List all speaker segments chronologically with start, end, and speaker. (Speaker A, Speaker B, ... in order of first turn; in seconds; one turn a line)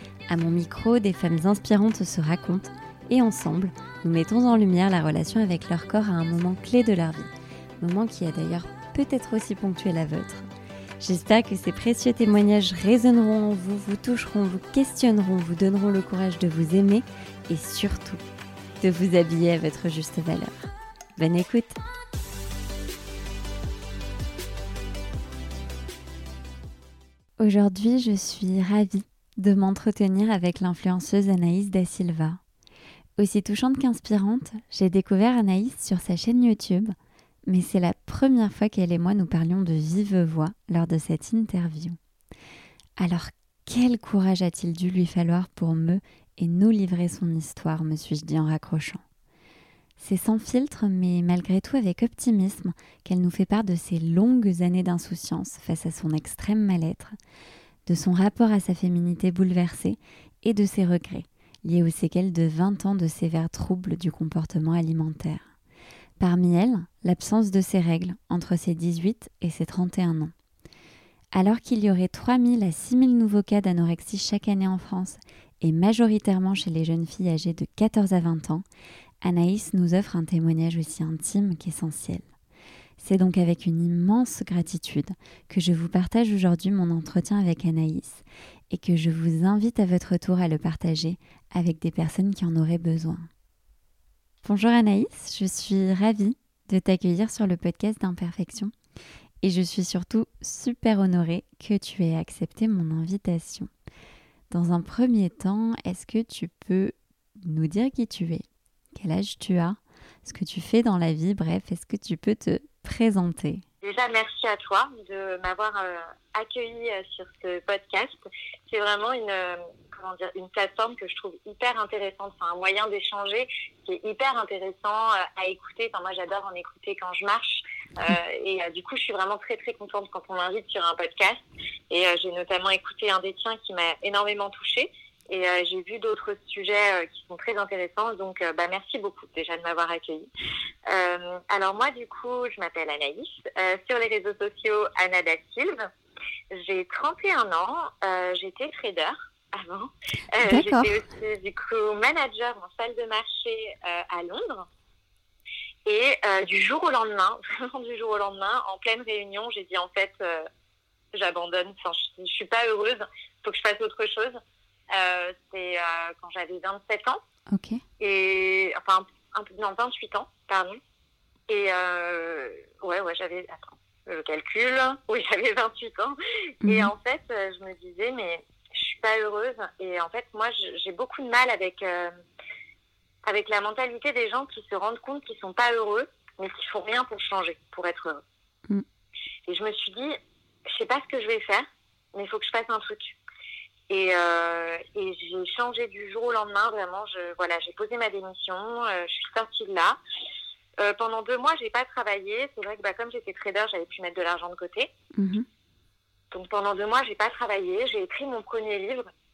Speaker A: 0.3-10.4
Speaker A: 11.0-18.2
Speaker A: 18.8-21.8
Speaker A: 27.4-32.4
Speaker A: 33.2-36.9
Speaker A: 37.5-42.0
Speaker A: 43.0-49.0
Speaker A: 50.0-57.1
Speaker A: 57.9-65.4
Speaker A: 66.2-70.3
Speaker A: 71.3-78.6
Speaker A: 79.2-82.2
Speaker A: 83.0-93.3
Speaker A: 94.4-98.7
Speaker A: 99.4-103.7
Speaker A: 104.5-113.6
Speaker B: 113.8-140.3
Speaker B: 140.9-145.9
Speaker B: 146.5-154.7
Speaker A: 150.4-151.0
Speaker B: 155.8-160.5
Speaker B: 161.1-164.4
Speaker B: 164.9-167.2
Speaker A: 167.5-167.8
Speaker B: 168.0-170.8
Speaker B: 171.5-182.1
Speaker A: 176.6-176.9
Speaker B: 183.2-188.2
Speaker B: 189.5-190.2
Speaker B: 190.7-193.2
Speaker B: 193.9-200.0
Speaker B: 200.8-204.9
Speaker A: 205.1-205.4
Speaker B: 206.3-209.1